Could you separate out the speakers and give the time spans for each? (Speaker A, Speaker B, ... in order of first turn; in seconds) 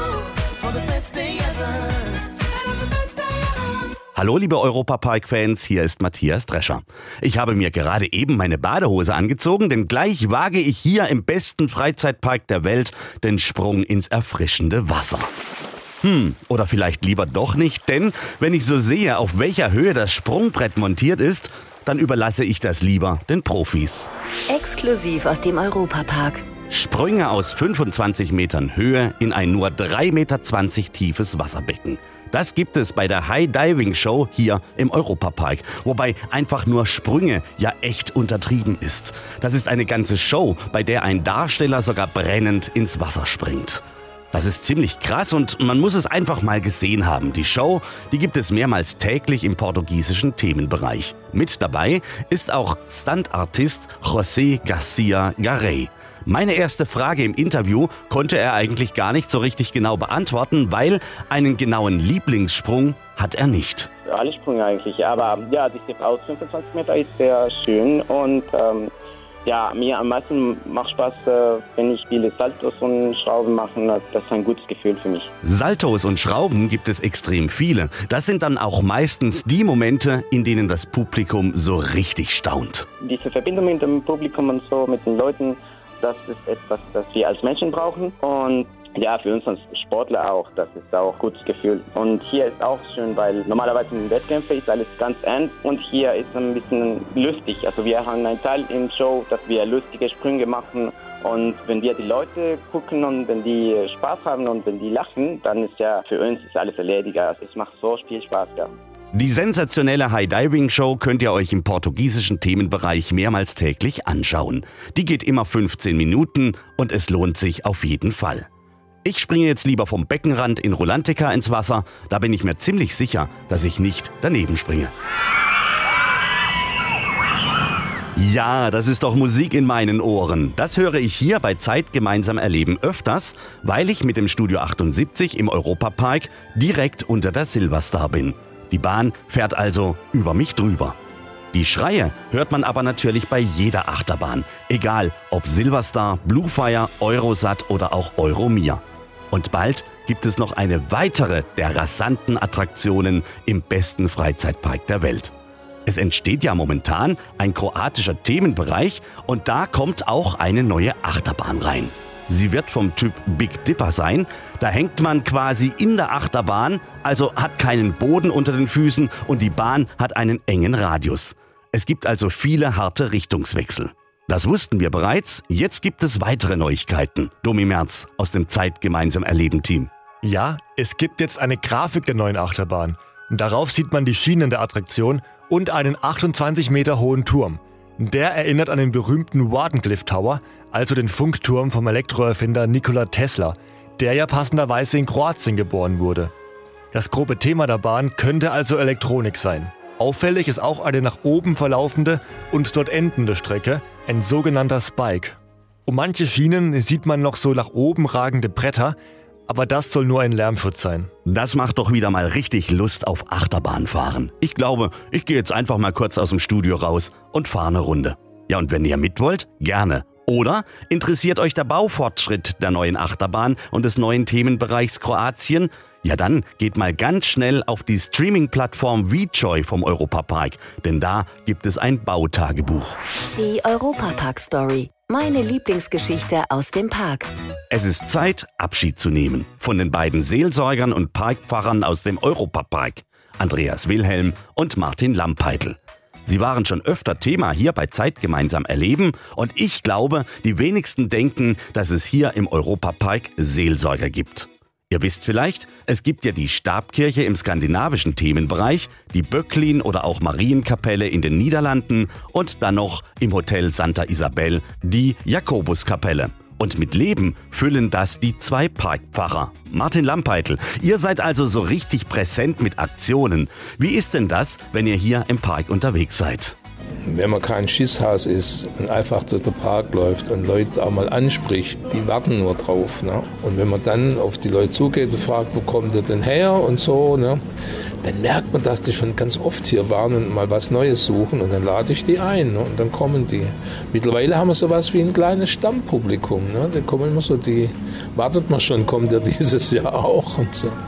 Speaker A: 0.7-1.7, 24.5-26.4, 233.3-237.3
Speaker B: 4.2-15.3, 16.0-24.1, 26.7-63.9, 75.4-82.9, 109.1-118.5, 119.0-124.9, 128.2-141.0, 141.5-155.3, 155.9-179.9, 211.3-232.9, 237.7-276.6
Speaker C: 64.1-68.9, 69.5-75.3, 83.0-108.7
Speaker D: 180.2-196.3, 196.9-209.0, 209.5-211.1
Speaker E: 277.1-287.4, 288.0-300.8